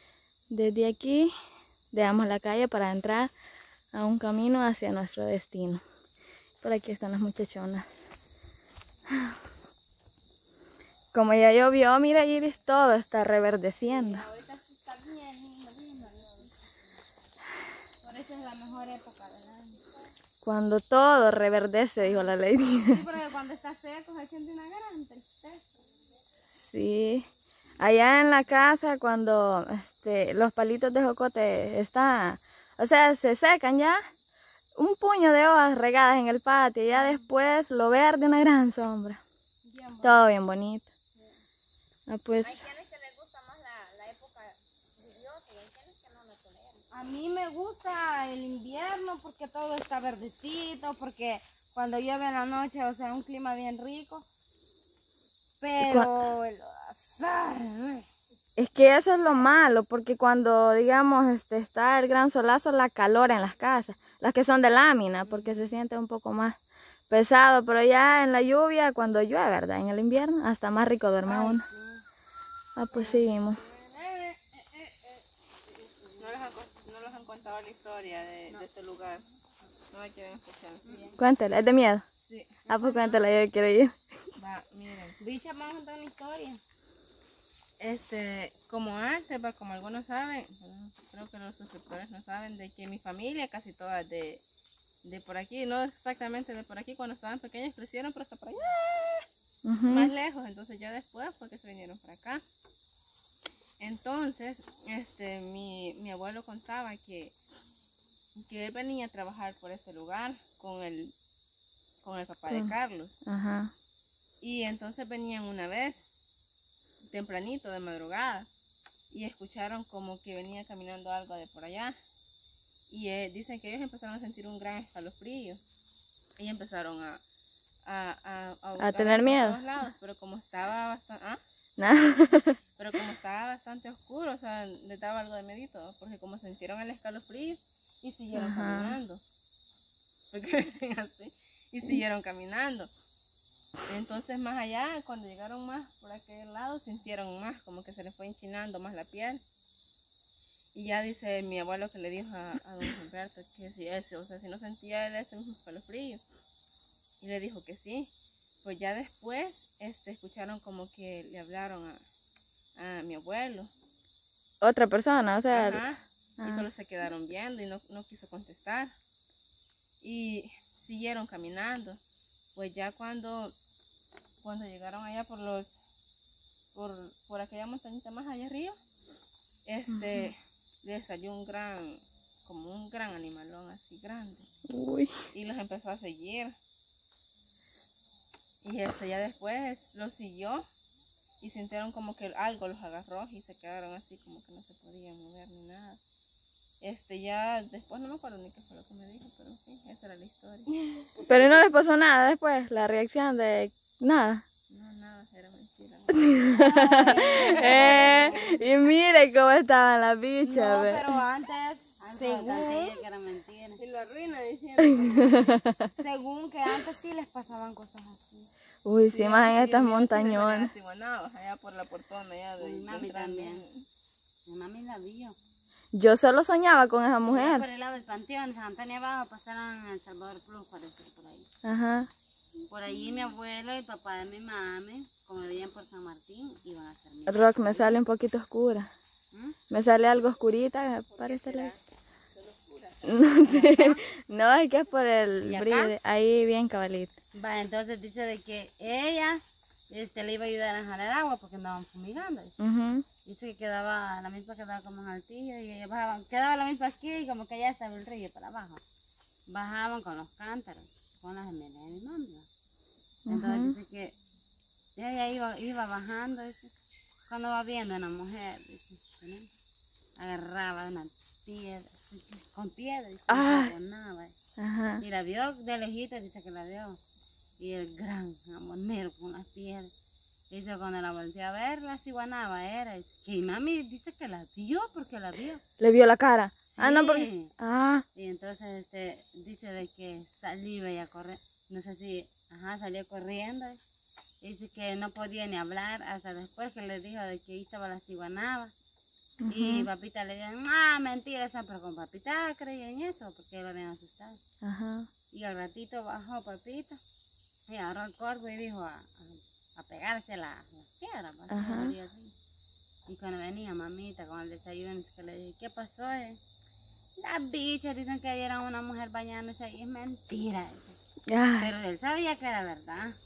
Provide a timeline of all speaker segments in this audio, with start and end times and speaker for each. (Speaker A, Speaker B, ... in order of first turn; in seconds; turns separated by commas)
Speaker A: 0.5-1.3, Speaker A: 1.9-3.3, Speaker A: 3.9-5.8, Speaker A: 6.6-7.9, Speaker A: 11.1-14.2, Speaker B: 13.9-16.5, Speaker B: 18.0-19.8, Speaker A: 20.4-23.0, Speaker B: 22.8-25.6, Speaker A: 26.5-27.3, Speaker A: 27.8-34.0, Speaker A: 34.8-39.2, Speaker B: 39.7-40.2, Speaker A: 40.0-40.9, Speaker A: 42.1-42.6, Speaker B: 42.4-54.2, Speaker B: 55.6-58.0, Speaker A: 55.8-56.1, Speaker A: 58.6-66.5, Speaker C: 65.2-65.8, Speaker A: 67.1-71.7, Speaker C: 71.3-71.9, Speaker A: 72.8-73.6, Speaker D: 73.0-73.2, Speaker D: 73.8-75.2, Speaker D: 76.2-79.2, Speaker D: 79.9-81.0, Speaker A: 81.2-82.0, Speaker D: 82.3-82.7, Speaker A: 82.7-84.0, Speaker C: 82.7-83.1, Speaker D: 84.4-85.2, Speaker B: 85.2-86.6, Speaker D: 87.8-94.4, Speaker B: 88.2-88.6, Speaker B: 89.2-90.6, Speaker B: 92.3-93.8, Speaker D: 95.1-99.2, Speaker A: 99.6-100.1, Speaker D: 99.9-102.4, Speaker D: 103.8-107.3, Speaker D: 108.4-111.1, Speaker D: 112.0-113.2, Speaker A: 113.2-113.7, Speaker D: 114.4-116.1, Speaker D: 117.1-118.5, Speaker D: 119.1-121.9, Speaker D: 122.9-125.6, Speaker D: 126.4-127.2, Speaker D: 127.9-131.4, Speaker A: 128.8-129.6, Speaker A: 131.8-132.6, Speaker D: 132.8-139.2, Speaker A: 138.3-139.0, Speaker D: 140.3-142.9, Speaker D: 143.9-149.4, Speaker D: 150.7-156.2, Speaker D: 157.2-158.1, Speaker D: 158.6-162.0, Speaker D: 162.8-163.7, Speaker A: 164.6-165.8, Speaker D: 165.5-168.9, Speaker A: 166.4-166.7, Speaker D: 170.0-172.0, Speaker D: 172.6-173.5, Speaker D: 174.4-175.8, Speaker D: 176.7-178.7, Speaker D: 179.7-184.4, Speaker A: 179.9-180.3, Speaker A: 184.7-185.1, Speaker D: 185.3-186.5, Speaker D: 188.6-190.6, Speaker D: 191.4-196.0, Speaker D: 196.8-201.1, Speaker B: 198.2-200.6, Speaker A: 201.3-204.4, Speaker B: 204.8-205.9, Speaker D: 205.0-208.3, Speaker A: 206.3-211.1, Speaker B: 206.6-208.5, Speaker B: 210.4-213.0, Speaker C: 212.0-213.8, Speaker B: 213.8-215.4, Speaker A: 214.9-215.3, Speaker B: 216.0-218.5, Speaker A: 218.8-220.7, Speaker D: 219.1-223.8, Speaker C: 222.6-223.6, Speaker C: 224.5-225.3, Speaker A: 225.9-227.6, Speaker C: 227.3-231.4, Speaker A: 231.6-232.1, Speaker C: 232.7-238.0, Speaker A: 237.3-238.9, Speaker A: 239.7-241.7, Speaker D: 241.1-241.8, Speaker D: 242.3-243.5, Speaker A: 243.0-247.1, Speaker C: 243.4-243.9, Speaker C: 245.4-245.9, Speaker C: 247.3-252.6, Speaker A: 252.6-253.0, Speaker C: 253.2-258.8, Speaker C: 259.5-262.5, Speaker A: 263.3-263.8, Speaker C: 263.3-264.1, Speaker C: 264.9-266.7, Speaker C: 267.3-269.5, Speaker C: 270.2-274.3, Speaker A: 273.3-273.7, Speaker A: 274.6-275.0, Speaker C: 275.0-277.0, Speaker C: 277.6-279.9, Speaker C: 280.5-285.6, Speaker A: 285.8-288.0, Speaker C: 286.7-287.5, Speaker C: 288.1-293.8, Speaker C: 294.4-298.7, Speaker A: 299.4-299.9, Speaker C: 299.5-304.4, Speaker A: 304.6-305.1, Speaker C: 305.3-307.0, Speaker C: 307.7-312.3, Speaker A: 311.5-311.9, Speaker C: 313.1-316.4, Speaker C: 317.2-321.0, Speaker A: 321.3-321.7, Speaker C: 321.6-323.1